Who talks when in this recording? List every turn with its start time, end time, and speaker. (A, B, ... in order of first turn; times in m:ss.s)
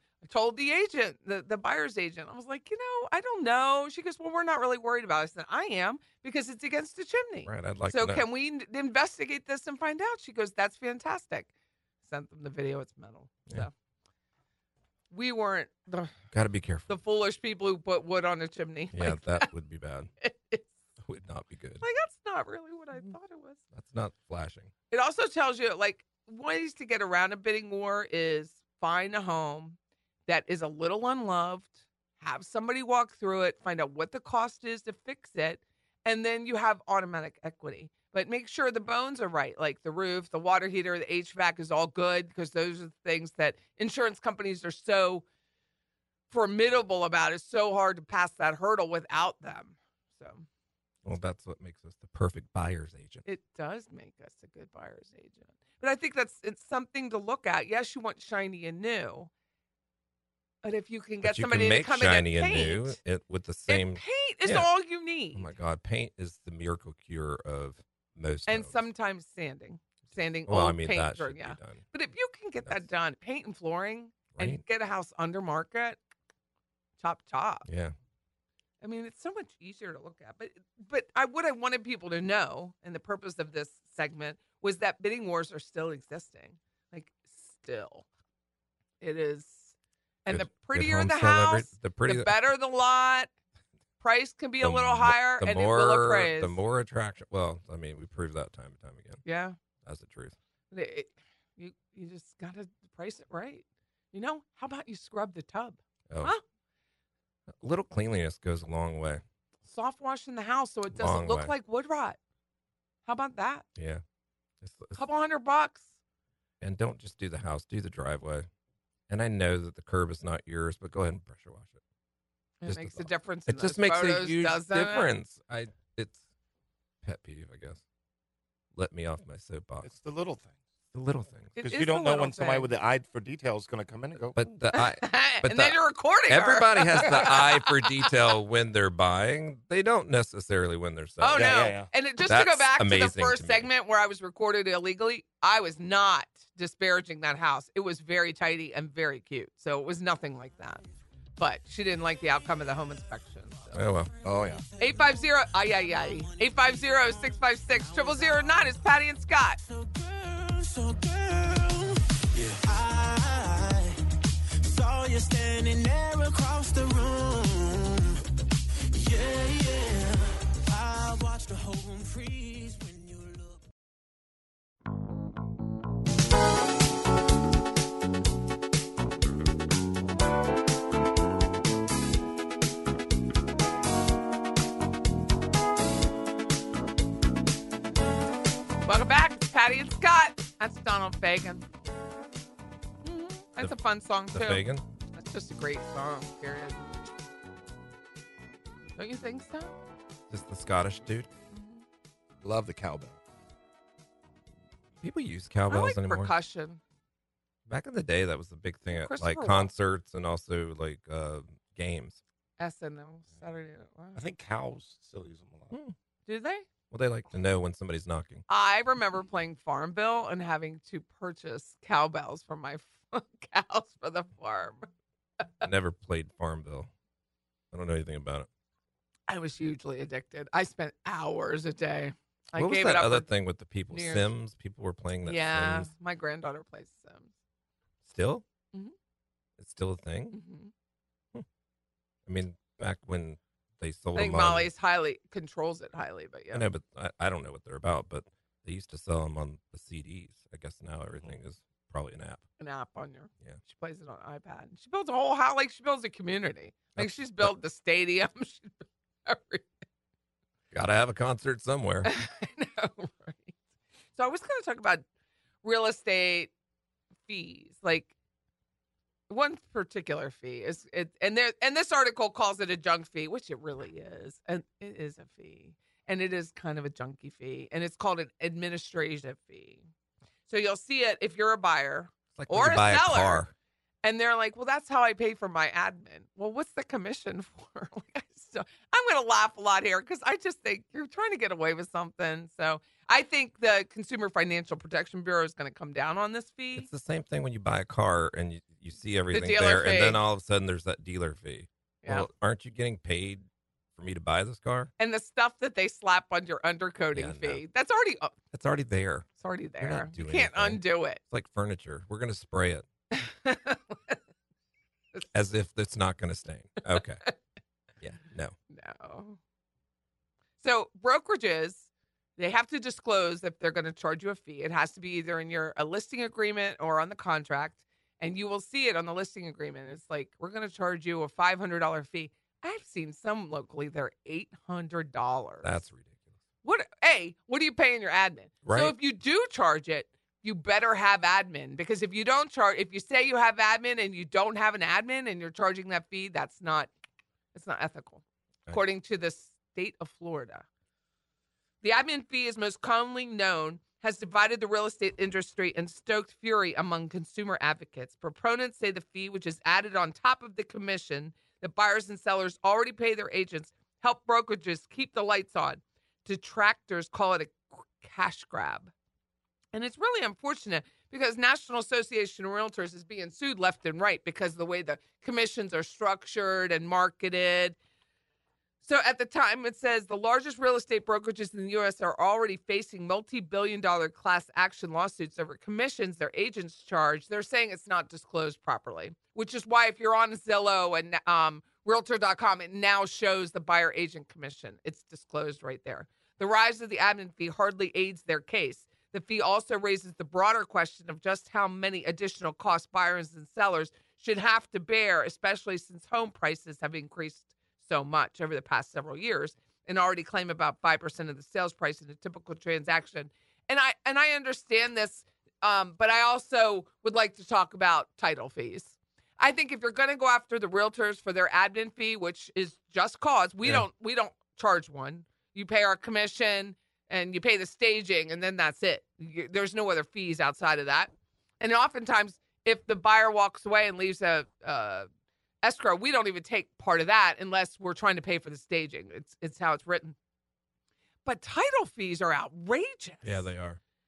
0:00.2-0:11.5 A
0:07.4-0:08.2 B
0:12.0-0:13.7 A
0:15.1-0:16.1 A
0:16.3-0:16.9 B
0:16.9-0:19.5 A
0:18.9-0:20.1 B
0:20.2-0:20.7 A
0:21.0-0:21.8 B
0:21.8-0:23.6 A
0:23.7-0:24.7 B
0:24.9-0:45.2 A
0:46.3-0:50.4 A
0:51.0-0:53.2 B
0:53.2-0:59.3 A
1:00.6-1:03.0 A
1:01.2-1:04.7 B
1:03.7-1:05.5 A
1:05.3-1:08.8 B
1:08.5-1:16.0 A
1:10.5-1:11.8 B
1:14.4-1:14.6 B
1:17.0-1:17.6 A
1:17.6-1:17.9 B
1:18.8-1:28.0 A
1:29.0-1:29.7 A
1:30.2-1:33.3 A
1:30.3-1:32.4 B
1:34.0-1:36.6 A
1:34.6-1:39.2 B
1:39.2-1:39.6 A
1:39.8-1:40.4 B
1:40.7-1:46.4 A
1:47.6-1:49.2 B
1:49.7-1:52.2 A
1:50.9-1:51.5 B
1:53.0-1:53.6 A
1:53.8-1:54.0 B
1:54.6-1:55.0 B
1:55.0-1:55.9 A
1:56.6-1:58.5 B
1:59.1-2:01.8 B
2:02.6-2:05.1 A
2:02.6-2:06.2 B
2:07.0-2:07.8 B
2:08.8-2:09.9 B
2:09.8-2:10.6 C
2:10.9-2:11.6 B
2:11.6-2:12.7 A
2:11.6-2:14.4 C
2:14.3-2:21.5 B
2:14.7-2:18.1 A
2:21.2-2:30.8 A
2:21.3-2:21.9 C
2:22.2-2:23.7 B
2:31.4-2:33.8 A
2:33.7-2:34.1 B
2:33.8-2:38.8 D
2:34.2-2:34.6 C
2:34.8-2:39.6 A
2:39.6-2:44.0 D
2:44.6-2:48.2 D
2:48.9-2:53.7 D
3:08.8-3:11.6 A
3:13.0-3:16.8 A
3:14.3-3:14.8 B
3:19.0-3:19.7 A
3:20.3-3:21.3 B
3:21.5-3:21.8 A
3:22.4-3:23.2 C
3:25.0-3:26.3 B
3:25.7-3:26.8 A
3:27.7-3:32.2 B
3:28.9-3:29.7 A
3:32.6-3:34.2 A
3:34.1-3:35.8 C
3:36.3-3:36.6 A
3:36.9-3:38.4 B
3:38.5-3:44.9 A
3:45.6-3:46.9 B
3:47.7-3:48.5 B
3:49.3-3:53.3 A
3:52.5-3:55.9 B
3:53.9-3:54.3 A
3:55.2-3:57.3 A
3:58.0-3:58.4 B
3:59.6-4:00.4 B
4:00.3-4:00.7 A
4:02.3-4:04.7 B
4:04.1-4:06.6 A
4:06.5-4:12.4 B
4:12.6-4:19.7 A
4:17.0-4:17.5 B
4:20.7-4:22.1 B
4:22.0-4:23.6 A
4:24.2-4:25.0 A
4:25.6-4:26.5 A
4:27.3-4:28.1 A
4:29.3-4:39.8 A
4:40.5-4:43.4 A
4:42.3-4:43.5 B
4:44.0-4:56.9 A
4:56.8-5:03.4 B
4:59.3-5:00.2 A
5:03.9-5:04.9 B
5:05.0-5:08.3 A
5:07.1-5:07.6 B
5:08.5-5:12.8 B
5:09.4-5:11.2 A
5:13.1-5:14.2 A
5:15.3-5:17.3 B
5:18.0-5:18.5 B
5:18.7-5:19.4 A
5:20.6-5:35.7 A
5:35.6-5:36.2 B
5:36.6-5:46.9 A
5:38.6-5:38.9 B
5:47.5-5:50.6 A
5:51.8-6:08.9 A
6:09.7-6:17.8 A
6:18.8-7:15.1 A
7:15.6-7:20.1 A
7:21.2-7:23.5 A
7:23.2-7:23.8 B